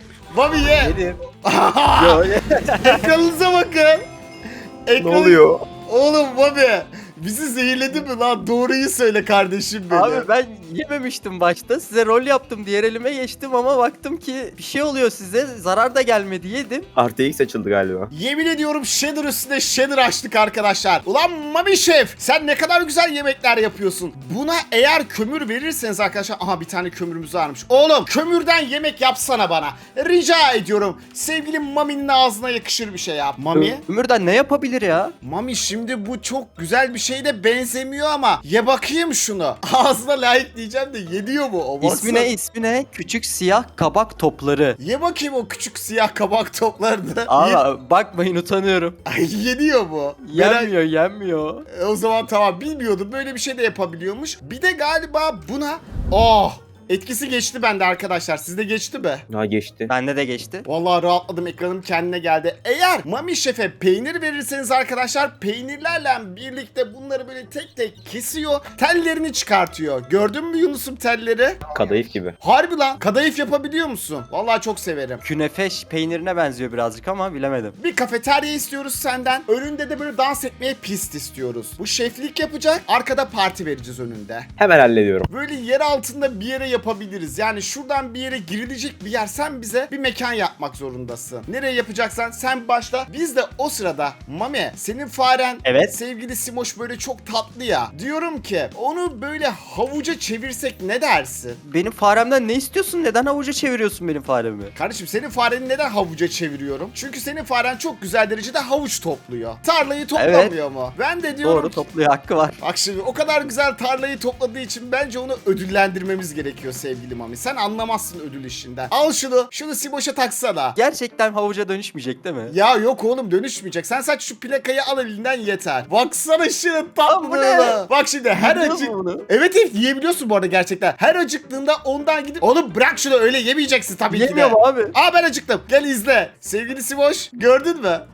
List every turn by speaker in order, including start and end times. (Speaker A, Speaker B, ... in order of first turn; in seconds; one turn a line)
Speaker A: 0.3-2.2
Speaker B: 0.8-1.2
Speaker B: 2.0-3.1
Speaker A: 2.8-4.0
Speaker A: 4.9-10.3
Speaker C: 5.0-5.7
Speaker B: 9.9-16.9
Speaker C: 17.0-18.1
Speaker A: 18.1-33.8
Speaker B: 33.5-35.1
Speaker A: 35.2-42.3
Speaker B: 41.8-44.8
Speaker A: 44.8-47.6
Speaker B: 47.3-49.0
Speaker A: 49.1-50.7
Speaker B: 50.2-51.6
Speaker A: 51.7-59.2
Speaker C: 59.3-59.9
Speaker B: 59.9-60.6
Speaker A: 60.7-71.6
Speaker C: 71.7-72.3
Speaker A: 72.4-75.2
Speaker B: 75.2-77.8
Speaker A: 77.8-84.5
Speaker C: 84.6-85.3
Speaker A: 85.3-101.6
Speaker B: 95.6-95.9
Speaker B: 101.6-104.7
Speaker A: 104.8-111.8
Speaker B: 110.2-110.5
Speaker B: 111.4-112.6
Speaker A: 112.6-120.8
Speaker B: 120.8-122.5
Speaker A: 122.5-138.1
Speaker B: 127.1-129.2
Speaker B: 134.1-134.9